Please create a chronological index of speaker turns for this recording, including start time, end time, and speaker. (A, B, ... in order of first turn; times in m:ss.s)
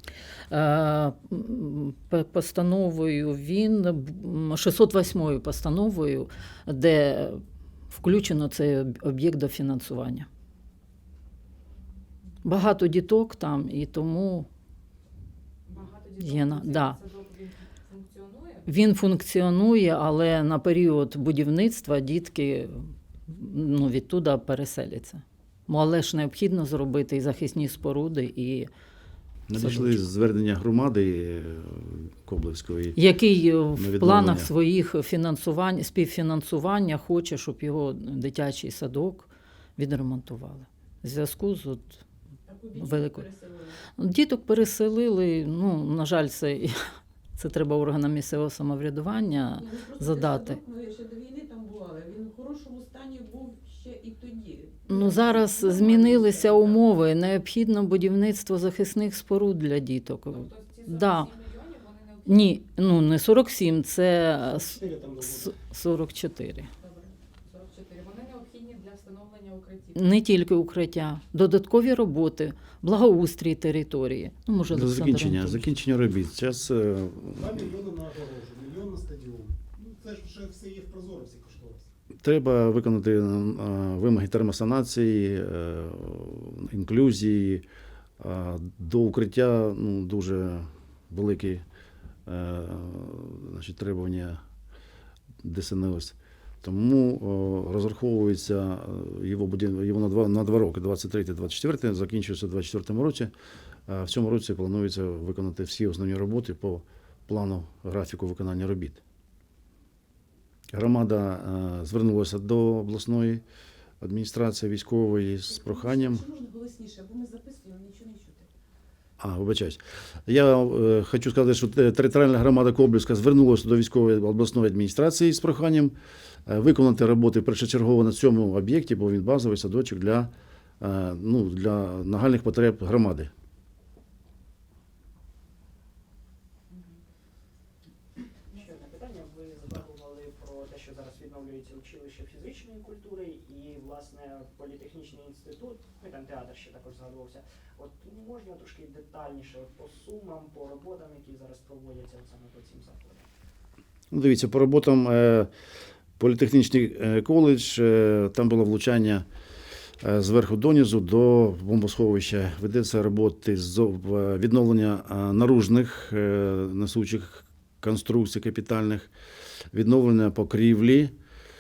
0:00.5-0:10.3 A
0:12.4-0:14.5 A
0:15.7-0:18.7 B
0:16.2-0:17.0 A
0:18.7-0:28.7 A
0:29.5-0:33.0 C
0:29.6-0:30.0 A
0:33.0-0:42.0 A
0:33.8-0:34.5 C
0:42.5-0:43.8 D
0:42.8-0:43.2 A
0:44.0-0:46.8 A
0:47.4-0:50.6 A
0:49.6-0:56.9 D
0:54.9-1:01.3 A
1:00.3-1:02.6 B
1:02.3-1:06.7 A
1:04.4-1:05.6 E
1:06.8-1:10.1 B
1:10.0-1:15.7 A
1:14.7-1:17.7 C
1:17.3-1:21.9 E
1:22.2-1:27.6 C
1:28.2-1:31.6 C
1:32.3-1:34.4 C
1:35.4-1:43.3 C
1:43.9-1:49.0 C
1:50.7-1:53.4 C
1:54.0-1:56.2 C
1:55.5-1:58.5 D
1:59.2-2:06.0 C
2:06.5-2:13.3 C
2:18.5-2:33.3 F
2:34.1-2:35.5 C
2:36.2-2:39.3 C
2:40.0-2:49.1 C
2:49.7-2:51.1 C